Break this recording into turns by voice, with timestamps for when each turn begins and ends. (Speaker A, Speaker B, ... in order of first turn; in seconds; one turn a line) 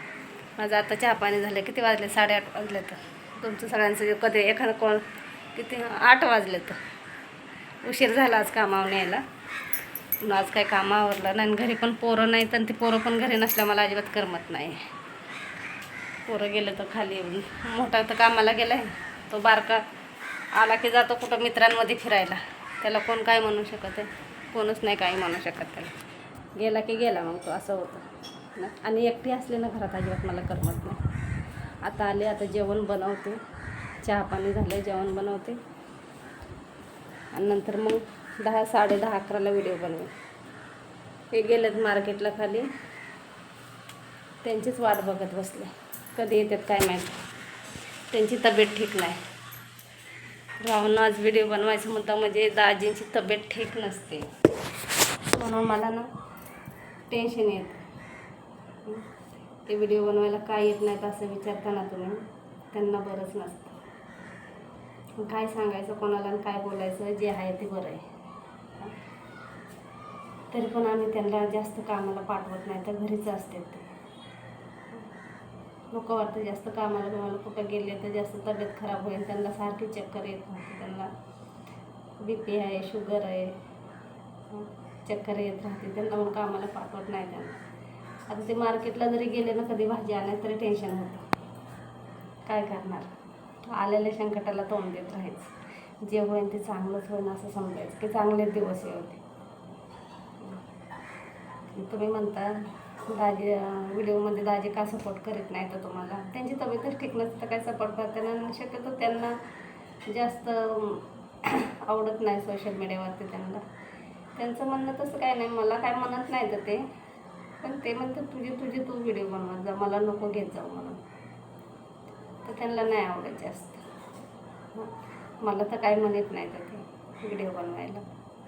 Speaker A: 0.6-6.8
Speaker A: 7.8-9.2
Speaker A: 10.2-14.9
Speaker A: 16.2-19.8
Speaker A: 20.5-26.0
Speaker A: 26.5-31.0
Speaker A: 31.8-33.4
Speaker A: 34.0-35.6
Speaker A: 37.3-40.1
Speaker A: 41.3-42.7
Speaker A: 44.4-47.2
Speaker A: 48.1-49.2
Speaker A: 50.6-54.3
Speaker A: 55.3-56.1
Speaker A: 57.1-57.8
Speaker A: 58.8-59.1
Speaker A: 59.6-63.8
Speaker A: 65.2-68.0
Speaker A: 70.5-73.9
Speaker A: 75.9-81.1
Speaker A: 82.2-83.6
Speaker A: 84.5-87.6
Speaker A: 88.3-91.2
Speaker A: 92.4-93.1
Speaker A: 93.7-99.2
Speaker A: 101.7-109.4
Speaker A: 110.0-113.6
Speaker A: 114.3-116.9
Speaker A: 117.6-121.0
Speaker A: 122.4-123.8
Speaker A: 124.7-128.1